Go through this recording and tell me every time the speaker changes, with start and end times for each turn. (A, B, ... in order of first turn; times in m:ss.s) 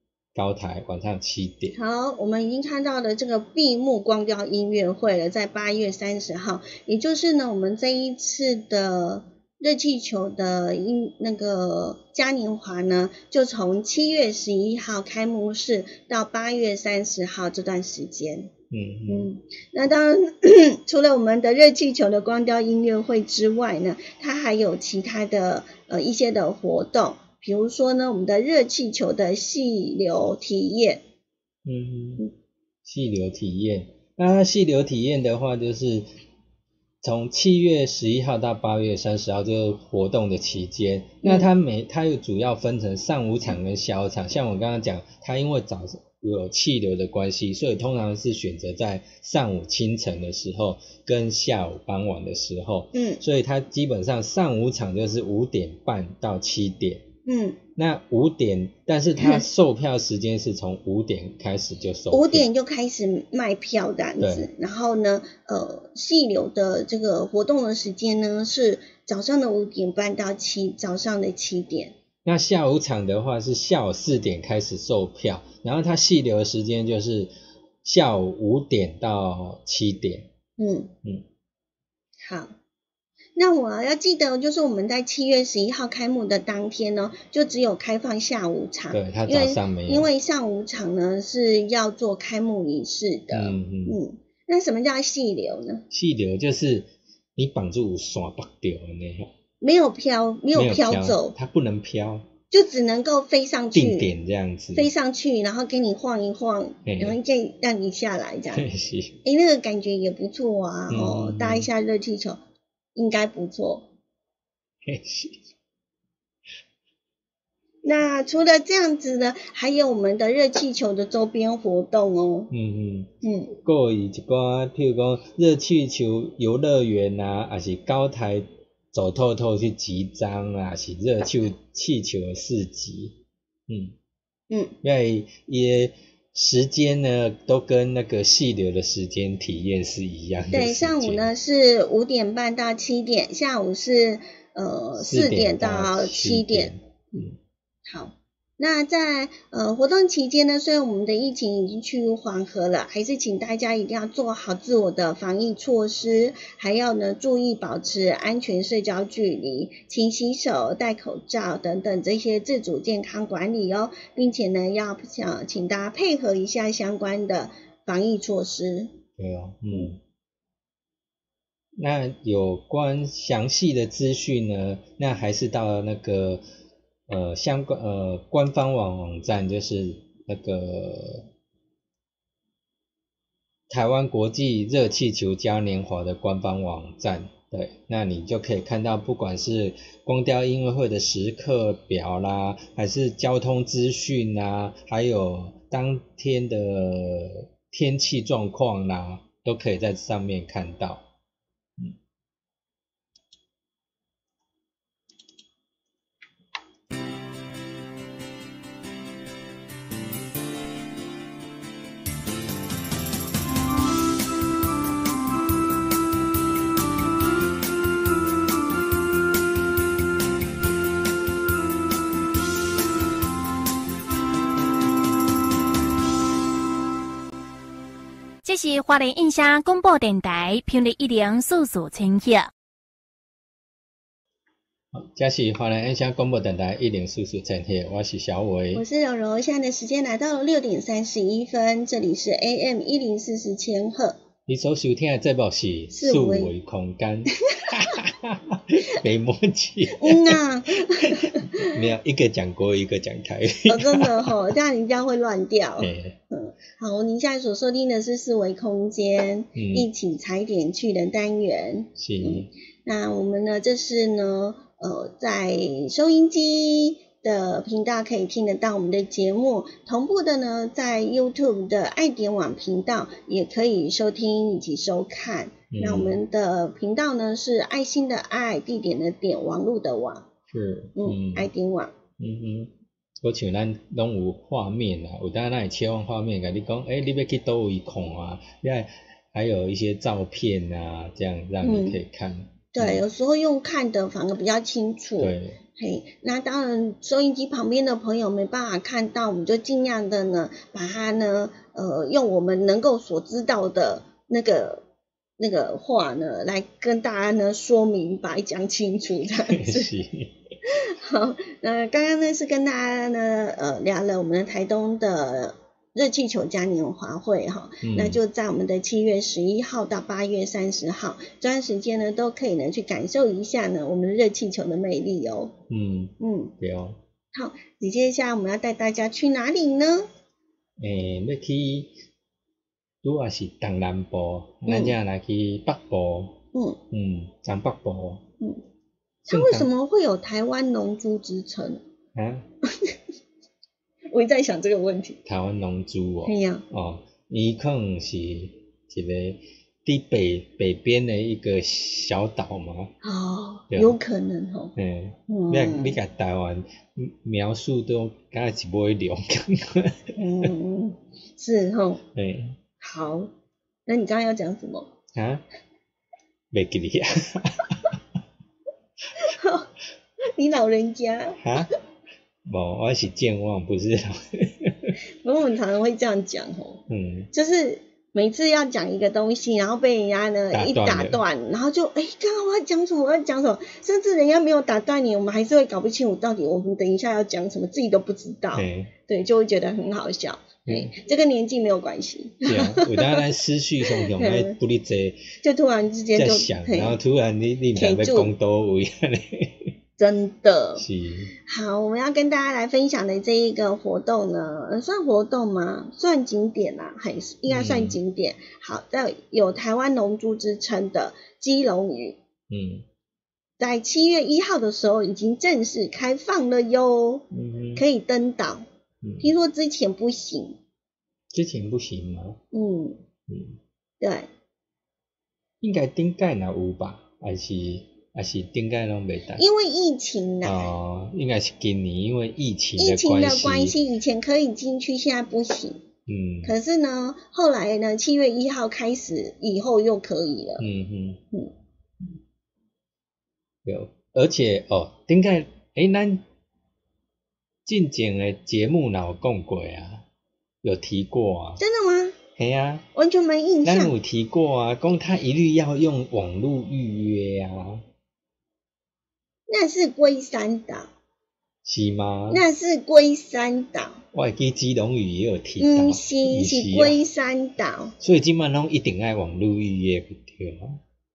0:00.3-0:01.8 A
0:01.7-0:18.5 B
0:18.7-0:19.3 A
0:19.1-0:31.0 B
0:31.6-0:32.3 A
0:32.8-0:36.1 A
0:37.0-0:57.1 A
0:41.2-0:41.5 B
0:52.9-0:53.2 B
0:57.2-0:57.6 B
0:57.8-1:02.5 A
1:02.1-1:11.9 B
1:04.2-1:04.5 A
1:12.2-1:17.3 A
1:17.8-1:20.3 A
1:20.6-1:20.9 B
1:22.2-1:22.5 B
1:23.4-1:35.8 B
1:28.9-1:30.1 A
1:33.3-1:34.0 A
1:35.9-1:39.3 A
1:39.6-1:41.3 B
1:40.5-1:42.3 A
1:42.5-1:44.1 B
1:43.7-1:44.9 A
1:44.7-1:48.6 B
1:46.8-1:47.2 A
1:48.5-1:49.2 A
1:49.2-1:52.4 B
1:50.9-1:51.7 A
1:52.9-1:53.9 B
1:54.8-1:55.4 A
1:57.8-2:02.5 B
2:02.5-2:13.2 A
2:03.2-2:03.5 B
2:13.7-2:13.9 A
2:14.5-2:14.7 B
2:14.8-2:21.3 A
2:20.5-2:26.7 B
2:25.0-2:27.4 A
2:27.8-2:48.9 B
2:49.2-2:50.0 A
2:51.8-2:56.4 A
2:57.1-3:01.3 A
3:03.7-3:21.1 A
3:48.4-3:52.5 C
3:54.9-3:58.8 A
3:58.7-4:04.2 B
4:04.5-4:10.4 A
4:05.9-4:06.5 B
4:07.6-4:07.9 B
4:10.0-4:11.7 B
4:11.0-4:14.5 A
4:13.7-4:40.3 B
4:15.8-4:16.2 A
4:19.6-4:19.9 A
4:22.0-4:22.5 A
4:35.7-4:36.2 A
4:40.5-4:41.5 A
4:41.0-4:41.9 B
4:42.2-4:53.0 A
4:51.6-4:52.0 B
4:52.7-5:04.8 B
4:55.2-4:55.6 A
5:05.4-5:09.9 B
5:09.5-5:10.3 A
5:10.7-5:25.6 B
5:17.8-5:18.2 A
5:25.7-5:27.0 A
5:26.2-5:26.5 B
5:27.3-5:30.1 B
5:30.8-5:32.0 A
5:33.0-5:36.4 A
5:34.6-5:35.0 B
5:36.5-5:36.8 B
5:36.9-5:38.2 A
5:39.2-5:41.8 B
5:39.3-5:39.7 A
5:42.1-5:42.5 A
5:42.7-5:43.0 B
5:44.1-5:45.2 B
5:45.2-5:52.9 A
5:46.2-5:46.6 B
5:53.0-5:54.7 B
5:53.7-5:54.0 A
5:54.8-6:00.5 A
5:55.3-5:56.0 B
6:00.2-6:02.0 B
6:02.1-6:02.6 A
6:02.8-6:03.3 B
6:03.8-6:04.9 B
6:05.1-6:05.4 A
6:06.5-6:08.0 A
6:09.2-6:09.7 B
6:10.3-6:11.8 B
6:11.4-6:11.7 A
6:12.4-6:15.0 A
6:15.2-6:33.3 B
6:16.9-6:17.3 A
6:20.5-6:21.2 A
6:28.5-6:28.9 A
6:32.4-6:35.3 A
6:33.9-6:34.6 B
6:35.4-6:37.0 B
6:36.1-6:39.7 A
6:37.8-6:38.3 B
6:40.0-6:40.8 B
6:40.8-6:41.3 A
6:41.4-6:52.2 B
6:47.5-6:48.0 A
6:52.5-6:52.8 A
6:53.6-6:58.6 B
6:57.3-6:57.8 A
6:59.0-6:59.3 A
6:59.2-7:00.6 B
7:01.3-7:02.4 A
7:02.5-7:03.0 B
7:03.3-7:03.6 A
7:04.0-7:04.3 B
7:05.6-7:09.4 A
7:09.4-7:10.7 B
7:10.4-7:13.8 A
7:12.8-7:15.8 B
7:16.0-7:16.5 A
7:16.4-7:20.6 B
7:20.6-7:21.2 A
7:23.6-7:26.2 A
7:27.6-7:30.0 A
7:30.6-7:31.6 A
7:31.6-7:32.2 B
7:32.4-7:32.8 A
7:32.9-7:33.9 B
7:33.6-7:37.8 A
7:39.5-7:40.9 B
7:41.6-7:42.4 A
7:42.3-7:44.0 B
7:44.1-7:47.0 A
7:45.6-7:47.9 B
7:48.0-7:50.8 A